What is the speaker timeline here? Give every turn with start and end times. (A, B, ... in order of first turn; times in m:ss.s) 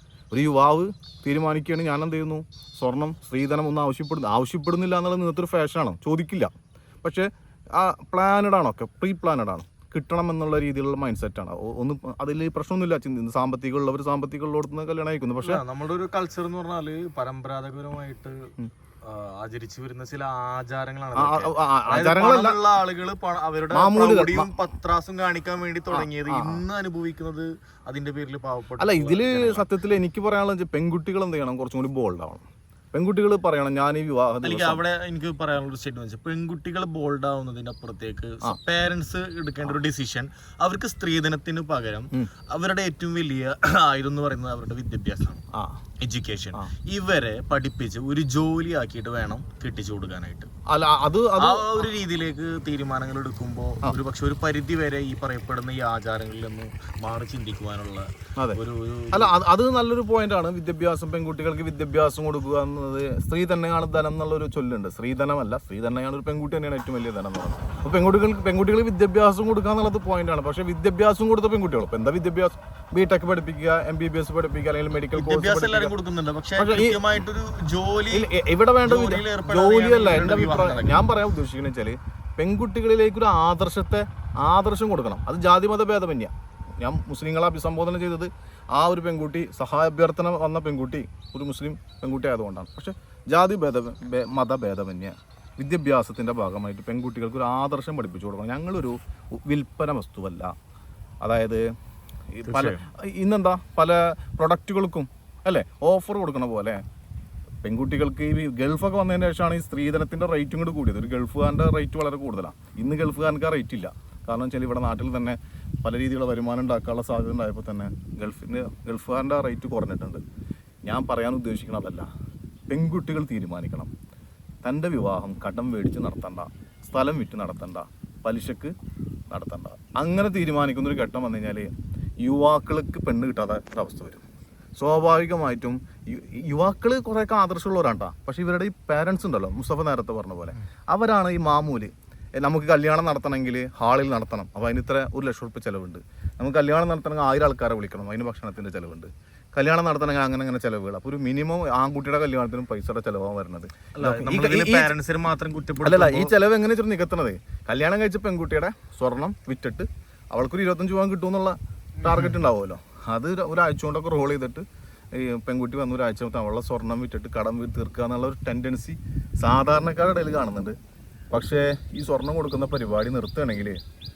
0:00.3-0:15.6 A
0:15.4-0:29.6 B
0:21.1-0:22.6 A
0:23.7-0:24.5 A
0:25.9-0:26.6 A
0:28.8-0:34.8 A
0:34.4-0:45.4 B
0:45.5-0:45.8 A
0:46.0-0:50.5 B
0:50.7-0:51.7 A
0:51.4-0:59.3 B
0:59.1-1:15.9 A
1:15.1-1:18.3 B
1:16.6-1:17.1 A
1:18.1-1:40.5 A
1:18.8-1:21.0 B
1:41.2-1:41.7 A
1:42.3-1:46.8 A
1:42.4-1:42.8 B
1:47.6-2:00.2 A
2:00.8-2:02.1 A
2:02.7-2:03.9 A
2:04.6-2:08.7 A
2:09.3-2:11.7 A
2:12.2-2:14.2 A
2:14.8-2:34.9 A
2:34.0-2:36.3 B
2:35.8-2:50.8 A
2:42.0-2:42.4 B
2:51.3-2:53.8 A